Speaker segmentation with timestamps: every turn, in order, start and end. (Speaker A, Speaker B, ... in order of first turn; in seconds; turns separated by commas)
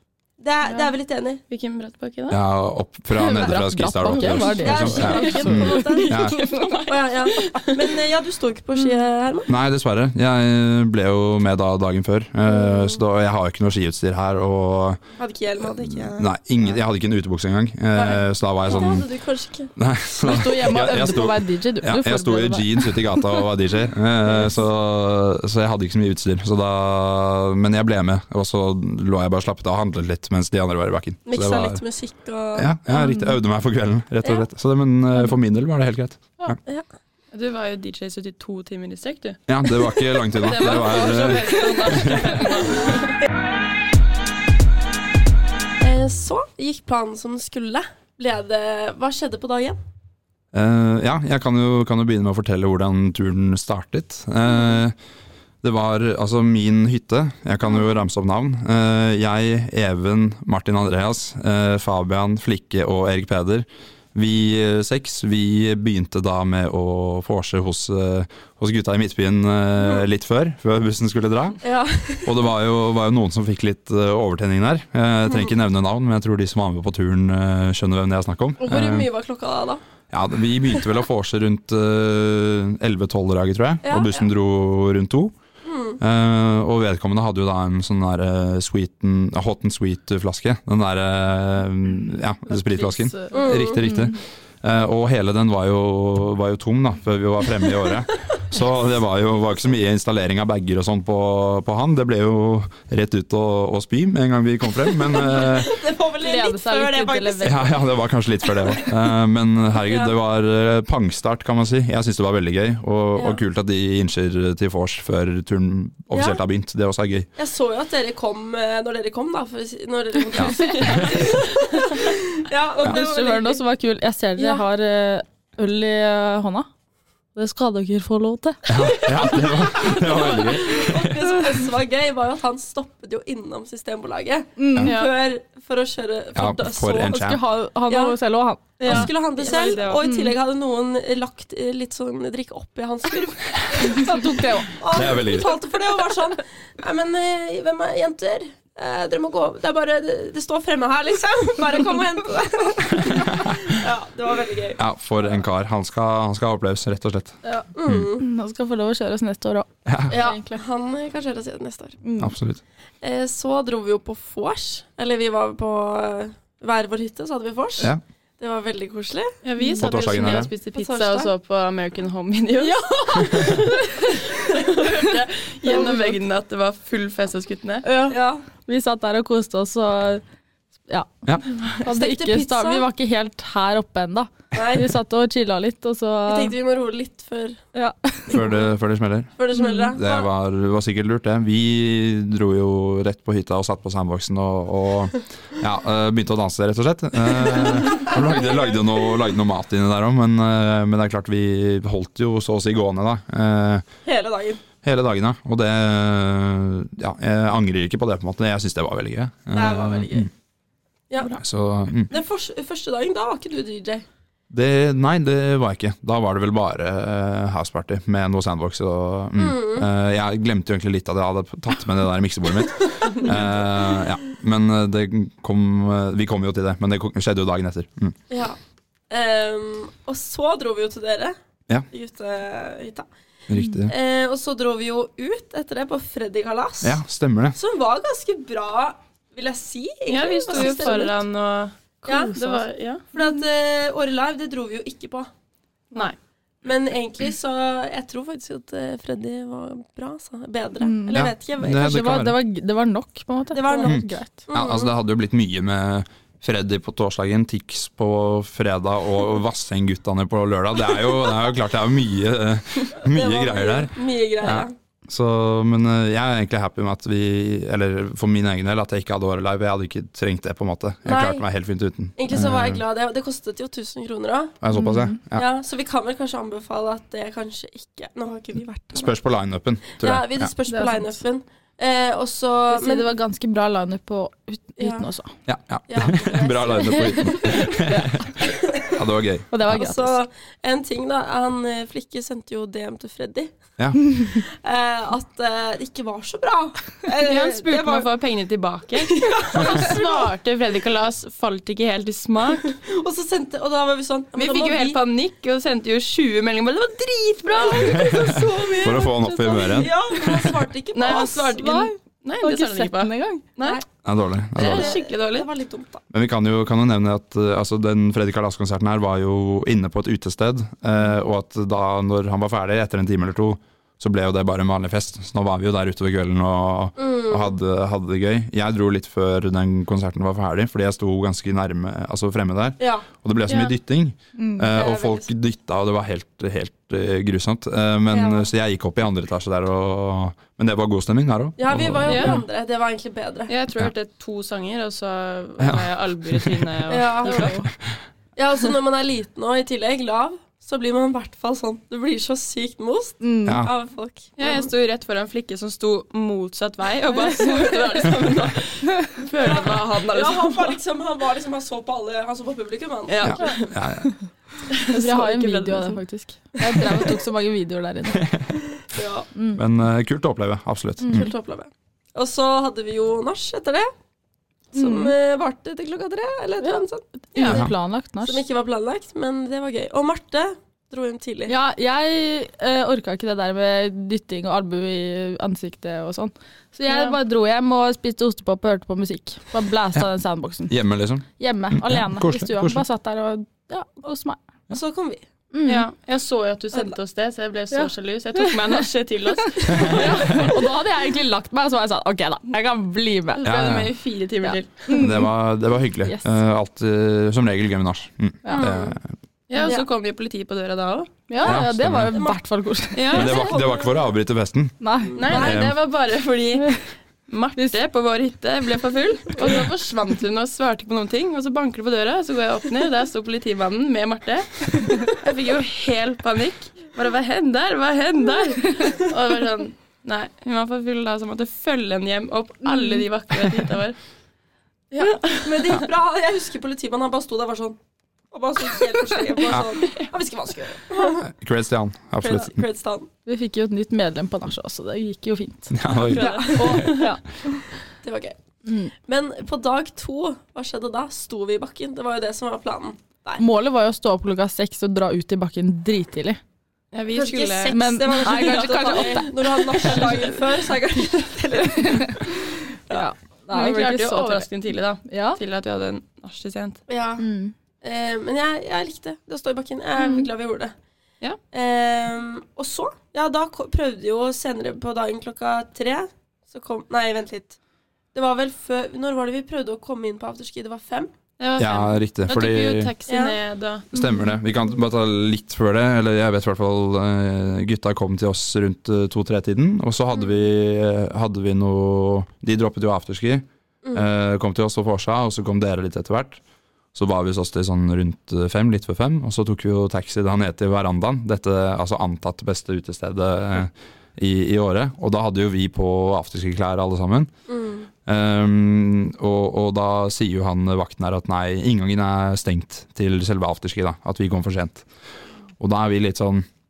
Speaker A: 0.4-1.4, Speaker B: 1.5-2.4, Speaker C: 2.3-6.4, Speaker D: 3.1-6.4, Speaker A: 4.3-9.5, Speaker B: 5.0-7.9, Speaker C: 9.5-15.0, Speaker A: 12.6-13.0, Speaker A: 15.2-16.3, Speaker C: 15.6-19.1, Speaker A: 17.9-19.7, Speaker C: 19.8-31.8, Speaker D: 20.2-23.4, Speaker A: 31.2-32.7, Speaker C: 32.5-36.6, Speaker D: 32.9-33.4, Speaker B: 37.3-43.1, Speaker C: 39.5-42.2, Speaker A: 45.8-49.8, Speaker C: 50.5-55.0, Speaker C: 55.6-71.6, Speaker A: 71.6-72.4, Speaker C: 72.2-79.1, Speaker A: 78.6-79.8, Speaker C: 80.1-85.3, Speaker A: 83.8-84.3, Speaker A: 85.6-86.0, Speaker C: 86.0-105.8, Speaker D: 92.5-94.1, Speaker A: 93.3-93.8, Speaker A: 105.1-107.8, Speaker D: 106.2-107.8, Speaker C: 107.4-117.3, Speaker A: 108.5-108.8, Speaker A: 109.8-110.1, Speaker A: 113.2-113.4, Speaker A: 116.1-116.4, Speaker A: 117.4-123.6, Speaker C: 120.3-121.1, Speaker D: 120.5-121.0, Speaker D: 122.8-126.7, Speaker A: 124.4-124.6, Speaker D: 127.3-129.1, Speaker C: 128.7-131.4, Speaker A: 128.7-137.3, Speaker D: 134.6-135.0, Speaker B: 134.8-135.1, Speaker C: 136.3-137.4, Speaker D: 137.0-140.3, Speaker A: 137.9-138.2, Speaker A: 138.8-154.8, Speaker B: 138.8-140.0, Speaker D: 143.9-144.7, Speaker C: 144.9-145.5, Speaker C: 153.3-153.6, Speaker C: 154.8-158.1, Speaker D: 157.4-160.6, Speaker A: 157.7-158.2, Speaker C: 159.8-160.2, Speaker A: 160.1-162.0, Speaker D: 162.0-162.3, Speaker C: 162.2-162.6, Speaker A: 163.0-169.3, Speaker B: 169.4-177.8, Speaker D: 169.6-170.0, Speaker C: 169.8-170.5, Speaker A: 170.2-171.3, Speaker D: 172.6-174.1, Speaker A: 174.4-174.9, Speaker A: 175.7-176.1, Speaker D: 175.7-175.9, Speaker D: 177.8-180.2, Speaker A: 178.1-178.4, Speaker D: 180.9-186.5, Speaker A: 181.8-182.8, Speaker A: 184.5-184.9, Speaker A: 186.3-187.6, Speaker D: 187.7-188.4, Speaker C: 188.3-189.3, Speaker A: 188.3-188.6, Speaker A: 189.3-190.3, Speaker D: 189.5-189.9, Speaker C: 189.9-203.8, Speaker A: 197.6-198.4, Speaker A: 204.0-204.6, Speaker C: 204.8-210.3, Speaker A: 209.5-210.3, Speaker A: 211.1-211.4, Speaker C: 211.4-212.1, Speaker A: 212.1-214.0, Speaker C: 214.5-228.2, Speaker A: 219.4-219.9, Speaker A: 223.2-223.5, Speaker A: 228.3-228.6, Speaker A: 229.1-231.3, Speaker A: 231.9-233.1, Speaker C: 233.5-233.9, Speaker A: 233.8-237.0, Speaker C: 236.8-237.6, Speaker A: 237.5-241.2, Speaker B: 240.1-243.0, Speaker D: 240.6-241.0, Speaker A: 242.1-245.3, Speaker D: 242.1-242.6, Speaker A: 246.6-252.0, Speaker D: 250.8-254.4, Speaker C: 251.1-252.4, Speaker A: 253.5-254.9, Speaker C: 253.8-272.8, Speaker A: 263.1-264.7, Speaker A: 271.0-271.4, Speaker A: 272.2-274.6, Speaker C: 274.6-275.4, Speaker D: 274.7-275.1, Speaker A: 275.3-279.1, Speaker C: 278.9-280.5, Speaker A: 280.0-283.1, Speaker D: 280.7-281.1, Speaker D: 282.7-285.3, Speaker A: 284.8-285.1, Speaker C: 285.4-289.5, Speaker A: 285.9-287.8, Speaker D: 287.0-288.2, Speaker A: 288.4-289.0, Speaker D: 289.5-290.2, Speaker A: 289.7-298.1, Speaker B: 297.2-302.8, Speaker A: 299.0-300.3, Speaker A: 302.7-305.0, Speaker B: 304.3-308.1, Speaker A: 307.5-311.9, Speaker C: 307.8-310.6, Speaker B: 310.9-313.8, Speaker D: 312.4-313.4, Speaker C: 314.0-315.0, Speaker B: 314.5-315.5, Speaker A: 314.6-316.0, Speaker C: 316.1-342.4, Speaker A: 327.0-327.5, Speaker A: 332.8-333.1, Speaker B: 333.5-333.7, Speaker D: 334.4-334.7, Speaker A: 334.7-335.3, Speaker A: 338.1-338.5, Speaker A: 341.6-343.5, Speaker B: 342.1-342.4, Speaker B: 343.5-347.6, Speaker C: 345.6-346.6, Speaker A: 346.9-347.6, Speaker D: 347.2-347.7, Speaker A: 348.4-354.7, Speaker D: 353.2-353.6, Speaker C: 353.4-353.7, Speaker B: 354.4-360.8, Speaker A: 357.2-358.2, Speaker A: 359.4-363.5, Speaker B: 363.1-363.8, Speaker C: 363.2-364.1, Speaker B: 364.7-366.0, Speaker D: 364.9-368.3, Speaker C: 368.1-368.5, Speaker A: 368.8-369.3, Speaker D: 369.3-369.6, Speaker C: 369.5-371.3, Speaker D: 371.0-371.3, Speaker A: 371.1-373.9, Speaker A: 374.7-377.7, Speaker D: 374.7-375.1, Speaker D: 376.6-378.4, Speaker C: 377.5-377.7, Speaker A: 378.2-381.5, Speaker D: 381.5-390.7, Speaker C: 390.7-392.8, Speaker D: 391.4-394.4, Speaker A: 394.7-395.2, Speaker D: 395.5-395.9, Speaker B: 395.6-400.5, Speaker D: 397.7-398.6, Speaker D: 399.4-403.5, Speaker C: 399.7-400.4, Speaker A: 399.8-400.2, Speaker B: 403.4-405.1, Speaker C: 403.4-403.9, Speaker D: 404.4-405.3, Speaker C: 404.9-409.1, Speaker A: 408.5-408.9, Speaker B: 409.5-411.2, Speaker D: 409.6-409.8, Speaker D: 411.3-413.3, Speaker C: 411.4-412.2, Speaker A: 412.1-412.4, Speaker B: 412.9-413.6, Speaker A: 413.1-414.0, Speaker C: 413.1-414.8, Speaker D: 414.8-415.3, Speaker A: 415.1-415.7, Speaker B: 415.1-434.0, Speaker C: 415.3-415.8, Speaker D: 432.6-433.0, Speaker A: 434.9-437.8, Speaker B: 435.0-435.8, Speaker A: 438.3-441.3, Speaker C: 441.2-442.6, Speaker A: 442.2-443.1, Speaker D: 443.2-445.8, Speaker C: 445.7-447.0, Speaker B: 446.0-447.1, Speaker A: 446.1-447.1, Speaker D: 446.5-447.2, Speaker A: 448.0-448.4, Speaker D: 448.6-448.9, Speaker A: 449.1-453.4, Speaker D: 453.4-456.4, Speaker B: 456.9-460.4, Speaker A: 457.1-462.4, Speaker D: 457.7-460.2, Speaker D: 461.8-462.3, Speaker D: 462.9-464.5, Speaker B: 463.5-466.8, Speaker D: 465.1-465.4, Speaker A: 466.9-467.3, Speaker D: 467.2-467.5, Speaker A: 467.8-470.7, Speaker D: 470.0-470.3, Speaker A: 471.5-477.6, Speaker A: 478.1-481.1, Speaker B: 481.4-483.9, Speaker C: 481.6-482.9, Speaker A: 483.1-483.4, Speaker C: 483.9-496.4, Speaker C: 496.9-507.3, Speaker A: 507.5-507.9, Speaker C: 508.1-514.9, Speaker C: 515.6-516.5